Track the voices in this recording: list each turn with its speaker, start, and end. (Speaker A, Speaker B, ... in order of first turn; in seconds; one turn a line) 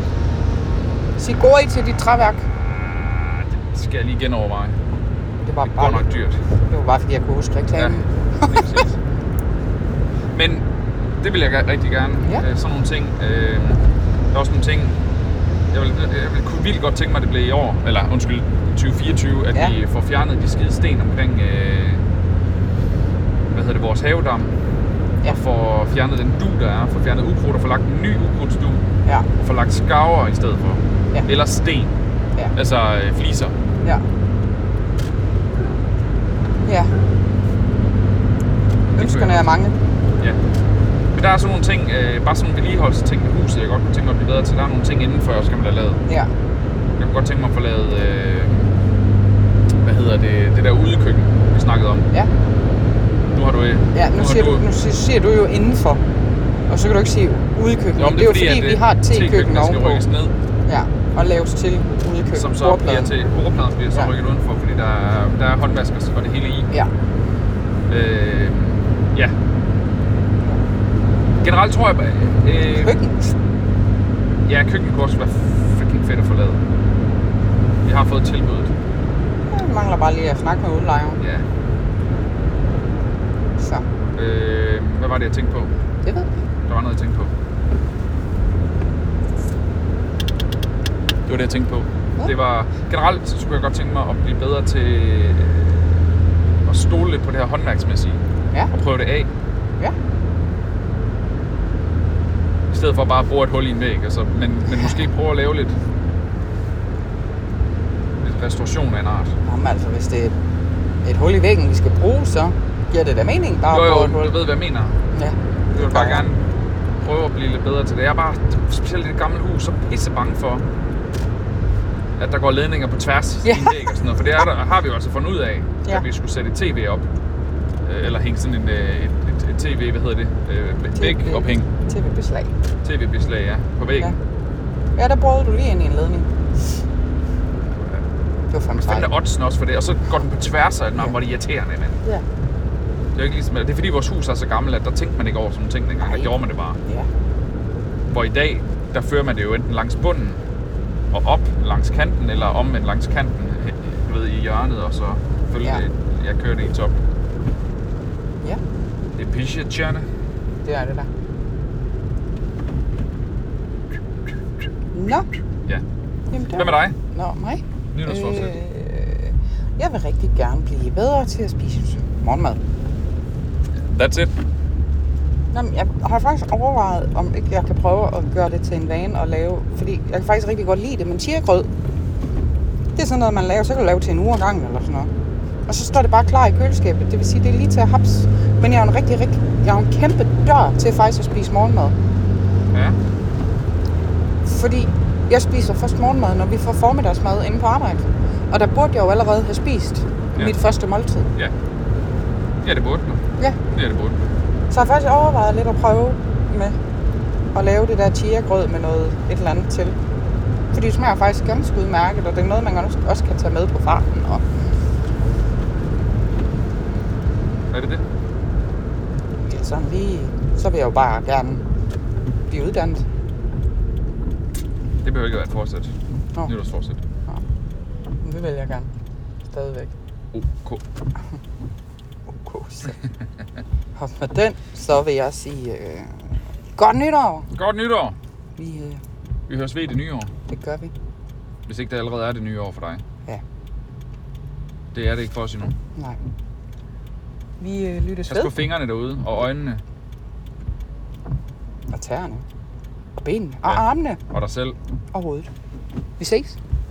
Speaker A: 1.2-2.5
Speaker B: 3.3-4.8
Speaker A: 5.5-6.1
Speaker B: 5.7-6.4
Speaker A: 6.7-8.8
Speaker B: 7.8-9.0
Speaker B: 10.3-15.0
Speaker B: 15.7-22.0
Speaker B: 23.5-24.5
Speaker B: 25.2-28.8
Speaker B: 29.4-31.9
Speaker B: 32.5-33.5
Speaker A: 36.7-36.9
Speaker B: 39.0-39.5
Speaker A: 39.0-39.8
Speaker B: 41.1-46.0
Speaker B: 47.0-48.6
Speaker B: 49.8-52.1
Speaker B: 53.3-54.6
Speaker A: 53.9-56.0
Speaker A: 56.7-60.0
Speaker B: 58.0-60.3
Speaker A: 60.7-63.1
Speaker B: 62.3-66.7
Speaker B: 67.9-69.3
Speaker B: 71.4-73.0
Speaker A: 72.8-73.3
Speaker B: 74.5-76.6
Speaker B: 77.8-78.7
Speaker A: 79.5-81.2
Speaker B: 81.2-81.5
Speaker A: 83.6-83.9
Speaker B: 84.2-85.7
Speaker A: 86.0-86.3
Speaker B: 86.7-87.3
Speaker B: 91.3-95.8
Speaker B: 96.7-98.2
Speaker B: 98.7-99.3
Speaker B: 102.7-105.8
Speaker B: 108.2-109.3
Speaker A: 109.5-110.3
Speaker A: 111.0-114.3
Speaker B: 113.7-115.0
Speaker A: 115.1-116.2
Speaker B: 115.7-116.4
Speaker B: 117.0-120.7
Speaker B: 122.2-127.1
Speaker A: 123.5-123.8
Speaker B: 127.8-131.7
Speaker A: 131.0-132.5
Speaker B: 132.8-134.1
Speaker A: 135.0-136.3
Speaker A: 138.5-139.1
Speaker B: 138.8-142.0
Speaker B: 143.2-146.8
Speaker A: 146.0-146.3
Speaker B: 148.1-150.4
Speaker B: 151.1-157.0
Speaker B: 159.2-160.1
Speaker A: 160.7-161.1
Speaker A: 164.9-165.3
Speaker A: 166.3-172.6
Speaker B: 166.5-167.0
Speaker B: 167.9-168.6
Speaker B: 173.8-174.3
Speaker A: 175.5-181.7
Speaker A: 182.9-185.1
Speaker A: 185.7-191.9
Speaker B: 192.7-193.0
Speaker A: 194.4-201.3
Speaker B: 202.6-204.2
Speaker A: 204.7-206.8
Speaker A: 207.5-210.0
Speaker A: 210.7-214.4
Speaker B: 217.7-218.0
Speaker A: 219.4-221.6
Speaker A: 222.5-223.1
Speaker B: 225.0-225.9
Speaker B: 226.4-227.0
Speaker A: 228.2-228.9
Speaker A: 229.5-229.9
Speaker B: 230.3-230.8
Speaker A: 232.3-233.0
Speaker A: 234.0-237.5
Speaker B: 237.5-238.2
Speaker A: 238.6-239.0
Speaker B: 239.5-240.3
Speaker A: 240.5-240.9
Speaker B: 241.7-243.0
Speaker B: 244.9-245.8
Speaker A: 247.6-248.6
Speaker B: 248.3-249.8
Speaker A: 251.9-252.4
Speaker A: 253.2-254.2
Speaker B: 253.7-254.8
Speaker A: 255.1-255.5
Speaker A: 256.2-256.6